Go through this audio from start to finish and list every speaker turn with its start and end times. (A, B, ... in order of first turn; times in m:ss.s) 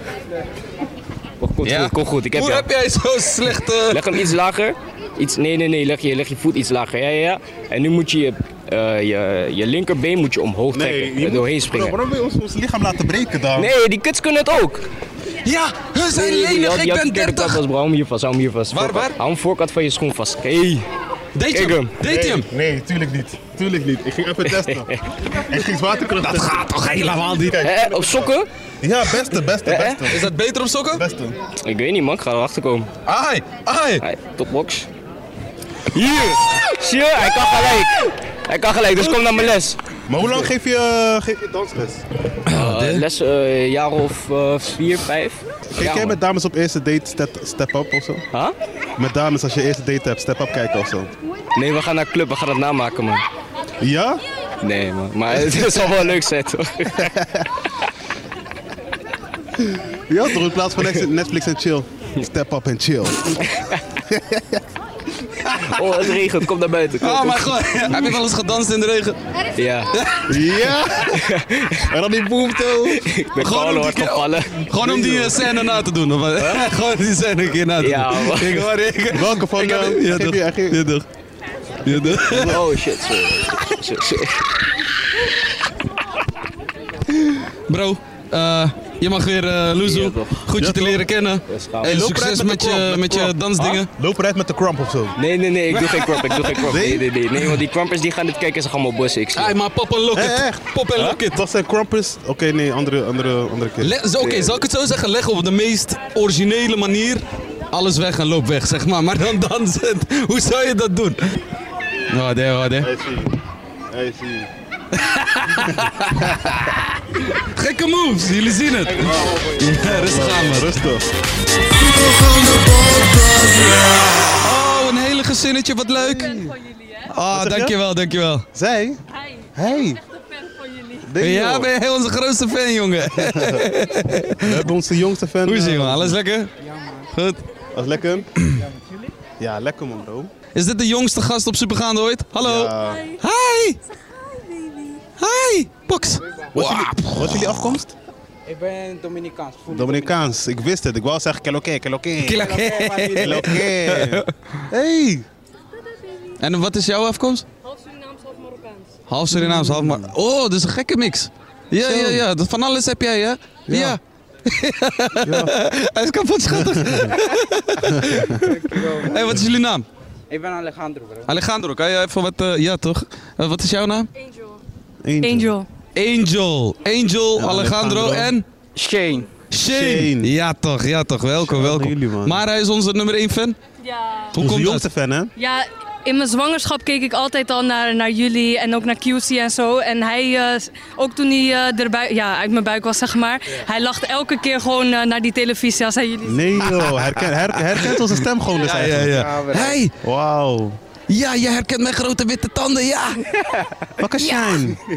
0:01.4-0:02.7 A
0:01.6-0:04.3 B
0:03.9-0:12.0 A
0:10.7-0:13.7 C
0:13.6-0:14.8 A
0:15.4-0:17.6 B
0:16.1-0:20.8 A
0:18.7-0:19.2 B
0:21.4-0:22.5 B
0:21.5-0:22.0 A
0:22.0-0:30.3 C
0:24.4-0:25.0 A
0:26.2-0:27.6 B
0:27.6-0:28.5 A
0:29.5-0:30.1 A
0:30.1-0:31.0 B
0:30.9-0:31.3 C
0:31.6-0:32.9 A
0:33.1-0:34.0 B
0:34.0-0:34.9 A
0:35.9-0:39.8 A
0:40.1-0:42.0 C
0:42.5-0:43.0 B
0:42.5-0:46.2 A
0:45.7-0:48.2 C
0:49.0-0:51.1 C
0:51.6-0:53.2 A
0:53.8-0:54.2 C
0:54.6-0:57.1 A
0:57.0-0:57.5 C
0:59.9-1:03.5 C
1:03.5-1:03.8 A
1:04.1-1:04.6 C
1:05.7-1:08.2 A
1:07.0-1:09.2 B
1:09.6-1:09.9 A
1:09.9-1:10.4 B
1:10.3-1:11.3 C
1:11.1-1:11.9 A
1:11.9-1:13.0 C
1:13.0-1:14.6 A
1:13.4-1:21.0 B
1:14.8-1:15.4 C
1:16.4-1:16.7 A
1:17.8-1:18.7 A
1:19.1-1:20.8 C
1:21.8-1:22.6 C
1:21.8-1:22.7 B
1:22.2-1:24.4 A
1:27.1-1:33.9 B
1:29.8-1:30.4 A
1:30.6-1:31.1 C
1:31.5-1:32.0 A
1:31.8-1:35.2 C
1:35.2-1:39.6 A
1:35.7-1:36.8 B
1:36.6-1:37.1 C
1:39.4-1:41.4 B
1:40.1-1:44.6 C
1:43.8-1:51.2 B
1:52.1-1:52.9 B
1:52.8-1:53.4 C
1:53.9-1:54.5 C
1:55.0-2:00.8 B
1:56.2-1:56.6 C
1:58.9-2:01.1 C
2:02.0-2:06.5 B
2:06.0-2:06.5 C
2:06.1-2:07.1 D
2:07.1-2:08.5 B
2:07.3-2:07.8 C
2:08.6-2:09.0 C
2:09.1-2:11.1 D
2:09.6-2:10.0 C
2:11.0-2:11.7 C
2:11.2-2:14.7 B
2:13.2-2:13.7 C
2:14.4-2:16.2 C
2:15.4-2:16.5 B
2:16.6-2:17.1 E
2:17.1-2:17.4 B
2:17.7-2:18.3 C
2:18.6-2:18.9 E
2:19.4-2:20.3 C
2:20.6-2:23.8 B
2:22.4-2:23.1 C
2:24.5-2:25.0 D
2:25.2-2:27.8 B
2:26.3-2:26.6 E
2:26.6-2:28.0 C
2:28.5-2:30.4 E
2:29.7-2:32.5 C
2:32.2-2:34.6 B
2:32.4-2:33.5 E
2:33.2-2:35.3 C
2:36.4-2:37.5 B
2:37.6-2:39.0 D
2:39.1-2:49.9 B
2:39.3-2:40.1 C
2:41.8-2:42.2 C
2:43.7-2:44.0 C
2:45.2-2:45.6 C
2:46.5-2:47.2 C
2:47.8-2:48.4 C
2:48.3-2:49.3 E
2:50.3-2:51.3 E
2:51.3-2:54.1 B
2:54.2-2:54.6 D
2:55.0-2:55.6 C
2:55.2-2:55.7 D
2:56.0-2:58.5 B
2:57.4-2:58.3 C
2:58.8-2:59.3 E
2:59.5-3:03.6 B
2:59.6-3:00.3 C
3:01.4-3:02.4 C
3:03.8-3:04.4 D
3:04.4-3:04.8 B
3:04.4-3:05.3 C
3:05.4-3:16.8 D
3:16.2-3:19.3 C
3:16.9-3:17.2 B
3:17.8-3:18.0 B
3:18.6-3:19.9 B
3:18.6-3:19.8 E
3:20.0-3:20.8 C
3:21.1-3:23.2 B
3:23.5-3:23.8 E
3:24.0-3:24.8 C